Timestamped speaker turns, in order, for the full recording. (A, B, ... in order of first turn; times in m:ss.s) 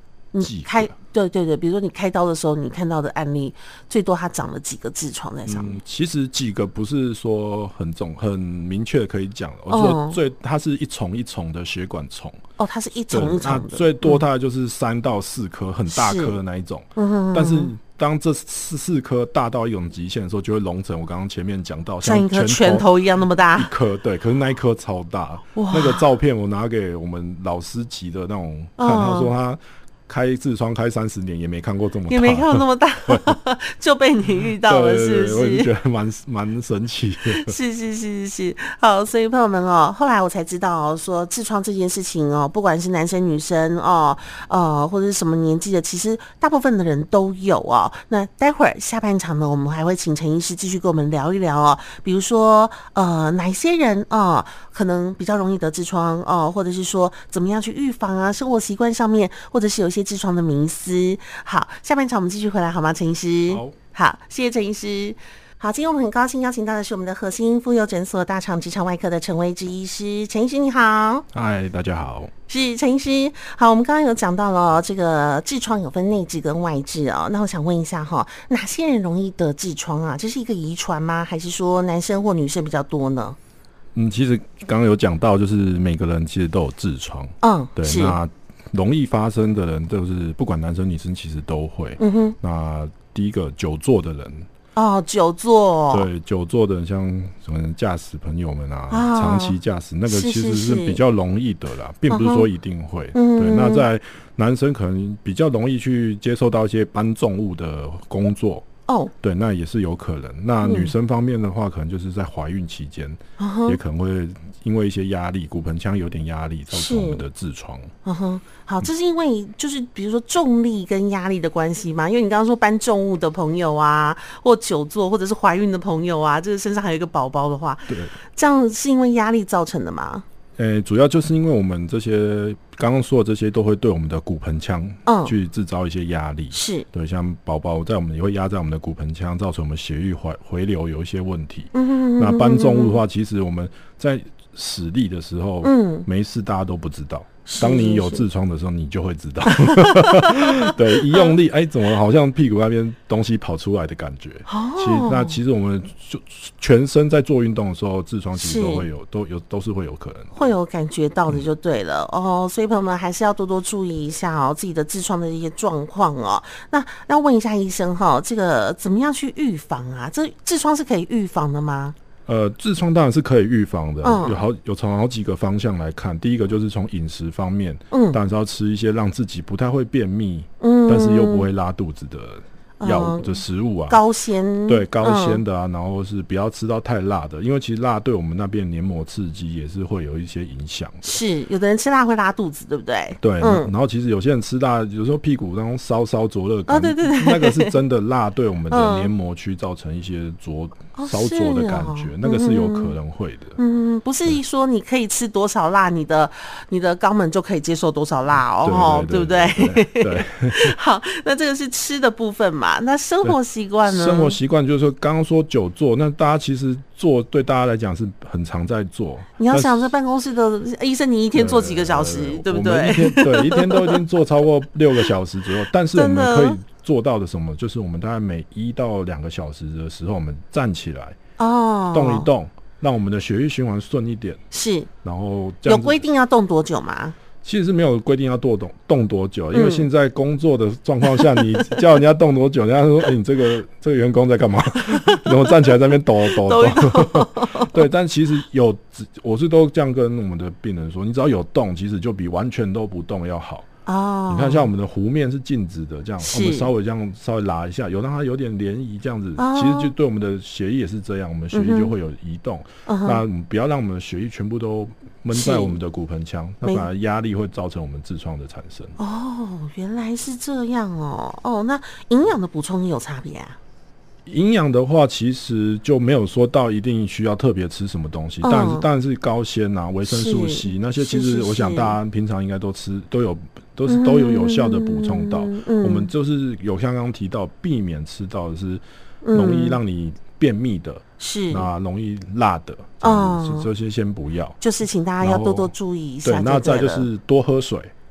0:00.3-0:05.8 A
0:00.4-0:00.9 B
0:05.4-0:12.4 B
0:09.7-0:10.2 A
0:12.6-0:14.2 A
0:13.1-0:22.9 B
0:15.9-0:16.4 A
0:17.0-0:17.7 A
0:22.0-0:23.7 A
0:23.5-0:33.3 B
0:25.5-0:26.0 A
0:28.8-0:29.3 A
0:32.1-0:35.7 A
0:34.6-0:37.5 B
0:37.3-1:11.2 A
1:03.5-1:03.8 B
1:11.3-1:12.3 B
1:12.5-1:23.4 A
1:23.9-1:34.5 B
1:27.4-1:28.2 A
1:32.0-1:32.4 A
1:34.8-1:36.1 A
1:35.9-1:48.6 B
1:38.9-1:39.6 A
1:40.1-1:41.0 A
1:42.1-1:42.5 A
1:43.1-1:43.9 A
1:48.9-1:49.1 A
1:49.2-1:57.9 B
1:50.6-1:50.9 A
1:53.4-1:53.8 A
1:56.7-1:57.2 A
1:58.0-2:10.2 A
2:07.9-2:08.1 B
2:10.6-2:40.3 B
2:15.0-2:15.3 A
2:16.5-2:16.8 A
2:21.7-2:23.0 A
2:25.6-2:26.0 A
2:27.4-2:28.2 A
2:29.5-2:31.3 A
2:34.4-2:35.4 A
2:38.3-2:38.9 A
2:40.3-2:51.9 A
2:52.3-3:04.0 B
2:54.0-2:54.4 A
2:57.9-2:58.2 A
3:00.6-3:01.5 A
3:02.8-3:05.4 A
3:04.7-3:11.2 B
3:11.0-3:13.7 A
3:13.2-3:23.6 B
3:16.7-3:17.8 A
3:18.7-3:19.1 A
3:20.9-3:22.9 A
3:23.6-3:34.4 A
3:28.6-3:30.8 B
3:33.2-3:39.9 B
3:39.4-3:44.0 A
3:41.3-3:51.2 B
3:45.9-3:46.6 A
3:51.4-3:52.3 A
3:51.9-3:54.4 B
3:54.5-3:54.9 A
3:55.0-3:56.0 B
3:55.6-3:57.2 A
3:57.4-4:13.7 B
3:59.5-3:59.9 A
4:01.0-4:01.8 A
4:04.9-4:07.8 A
4:13.8-4:14.7 A
4:14.3-4:28.9 B
4:16.2-4:16.7 A
4:19.4-4:19.9 A
4:21.5-4:21.9 A
4:22.8-4:23.2 A
4:25.3-4:25.8 A
4:29.0-4:33.6 A
4:34.2-4:48.8 B
4:38.4-4:38.8 A
4:40.0-4:42.0 A
4:43.9-4:46.1 A
4:49.2-4:49.8 A
4:49.3-4:54.6 B
4:51.2-4:51.7 A
4:53.0-4:53.7 A
4:54.6-4:57.1 A
4:55.2-4:55.7 B
4:56.2-4:57.9 B